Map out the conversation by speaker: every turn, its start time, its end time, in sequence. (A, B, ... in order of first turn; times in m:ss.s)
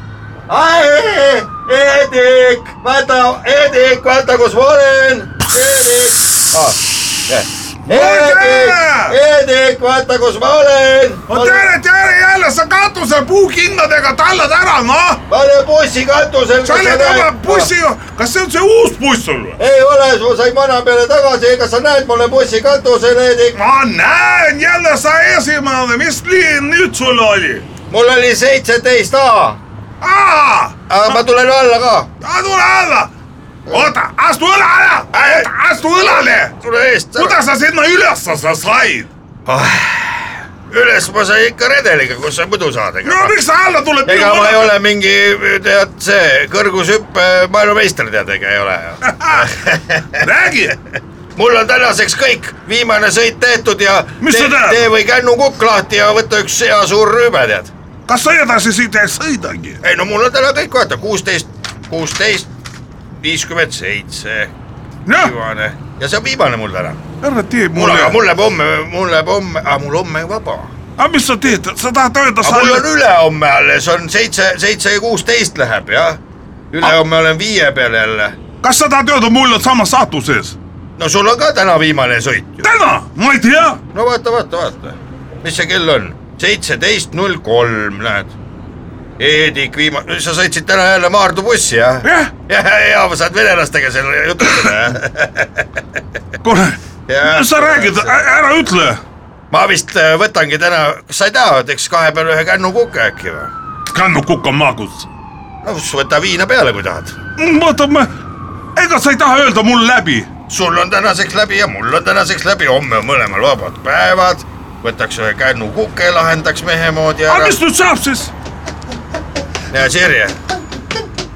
0:00.5-0:11.7 A
0:07.8-0:09.2 B
0:11.3-0:15.2 B
0:15.3-0:17.7 A
0:16.6-0:19.6 B
0:19.6-0:23.6 A
0:23.5-0:27.7 B
0:27.9-0:29.6 A
0:30.0-0:30.8 B
0:30.9-0:32.1 A
0:32.2-0:33.1 B
0:33.7-0:36.5 B
0:35.1-0:37.4 A
0:37.2-0:39.1 B
0:39.4-0:43.4 A
0:43.0-0:44.8 B
0:44.0-0:50.2 A
0:49.0-0:49.5 B
0:50.1-0:50.8 B
0:51.4-0:57.7 A
0:54.2-0:54.9 B
0:58.1-0:59.8 B
0:59.8-1:02.5 A
1:03.2-1:04.5 A
1:05.0-1:05.3 B
1:05.1-1:07.0 A
1:07.2-1:08.2 B
1:07.7-1:10.7 A
1:11.0-1:12.9 B
1:12.4-1:16.2 A
1:16.7-1:18.4 A
1:18.6-1:20.6 B
1:21.0-1:22.7 A
1:22.6-1:23.8 B
1:23.9-1:28.3 A
1:29.2-1:35.8 A
1:32.0-1:32.3 B
1:36.4-1:39.0 B
1:37.1-1:38.2 A
1:39.5-1:43.5 A
1:43.9-1:45.1 B
1:45.6-1:47.2 A
1:47.4-1:48.1 B
1:48.7-1:50.3 B
1:50.5-1:57.6 A
1:57.3-1:58.3 B
1:59.7-2:00.4 A